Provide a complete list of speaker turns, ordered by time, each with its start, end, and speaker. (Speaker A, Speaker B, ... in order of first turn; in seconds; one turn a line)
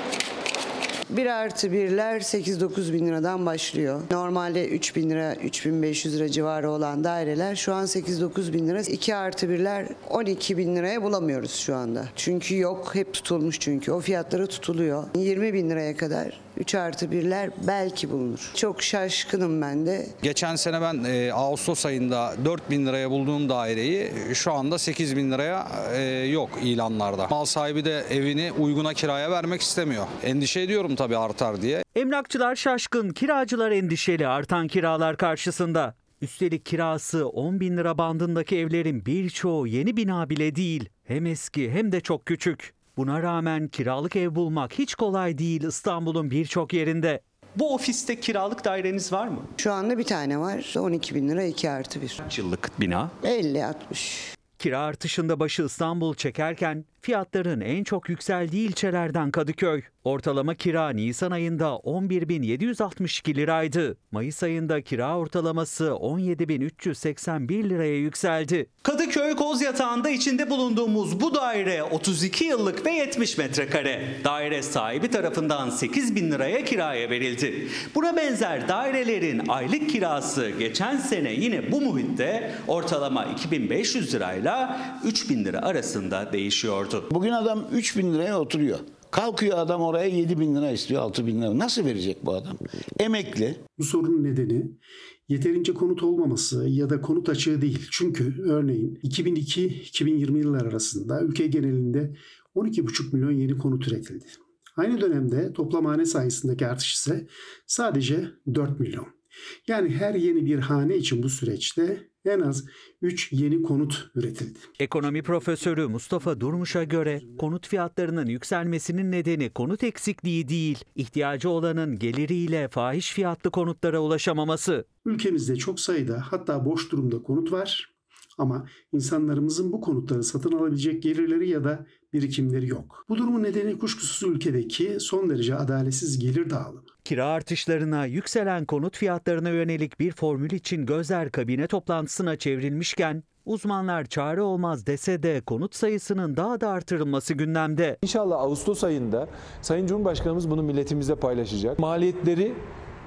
Speaker A: 1.1-20.1
Speaker B: 20.2-31.8
Speaker C: 31.9-49.5
Speaker A: 49.6-52.2
Speaker C: 52.2-53.1
Speaker A: 53.2-54.3
Speaker C: 54.6-87.1
Speaker D: 87.1-88.8
Speaker D: 89.8-91.0
Speaker E: 93.8-109.2
Speaker E: 109.7-114.7
Speaker C: 114.8-124.9
Speaker E: 125.0-136.9
Speaker C: 137.1-148.0
Speaker F: 148.0-152.6